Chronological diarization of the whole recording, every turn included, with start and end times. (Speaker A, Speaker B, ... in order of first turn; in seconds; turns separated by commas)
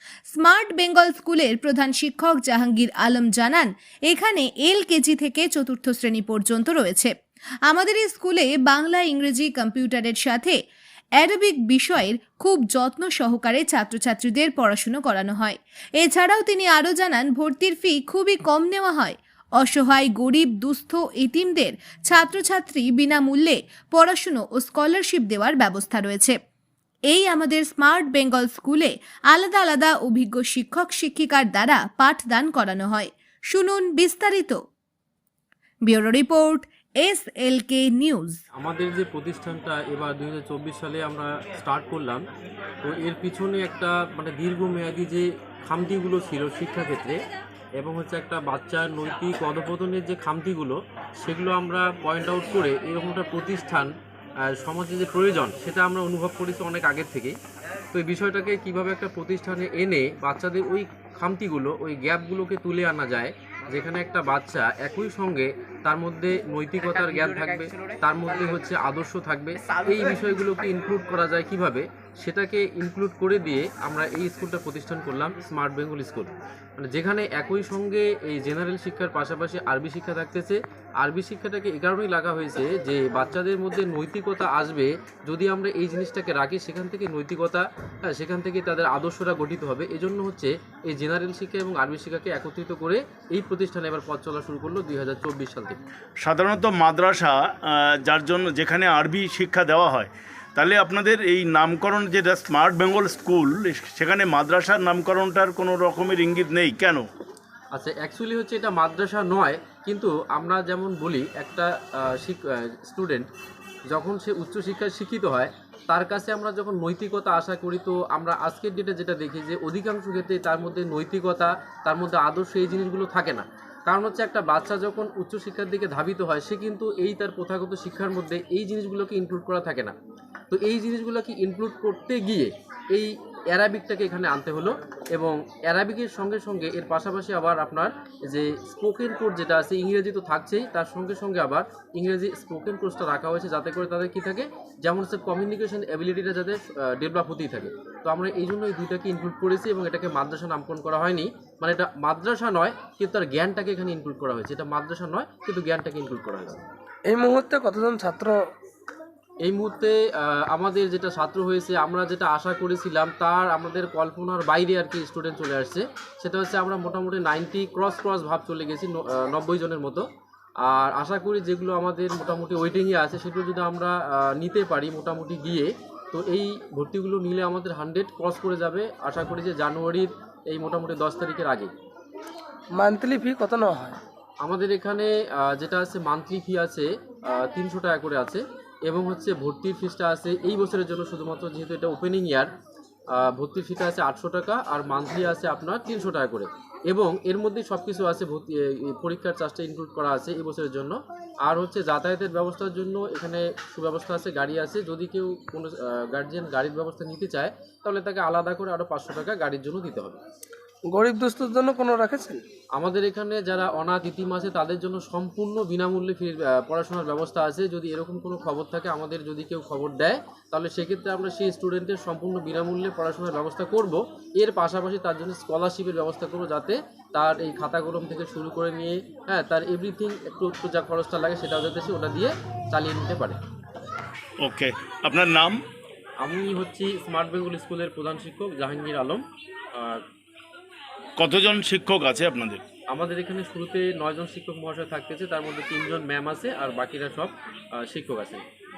Speaker A: 0.3-7.1, Speaker A: 7.7-10.6, Speaker A: 11.2-26.4, Speaker A: 27.1-34.6, Speaker A: 35.9-38.4, Speaker B: 38.5-42.2, Speaker B: 42.8-47.2, Speaker B: 47.8-53.9, Speaker B: 54.5-57.4, Speaker B: 57.9-95.8, Speaker C: 96.2-107.0, Speaker B: 107.7-113.3, Speaker B: 113.9-130.0, Speaker B: 130.5-156.6, Speaker D: 157.1-158.5, Speaker B: 159.4-170.1, Speaker B: 170.6-181.7, Speaker D: 182.8-184.0, Speaker B: 184.4-192.5, Speaker B: 193.1-210.2, Speaker D: 210.9-212.4, Speaker B: 212.8-233.4, Speaker C: 234.4-235.6, Speaker B: 236.2-240.0, Speaker C: 241.2-242.6, Speaker B: 242.9-248.4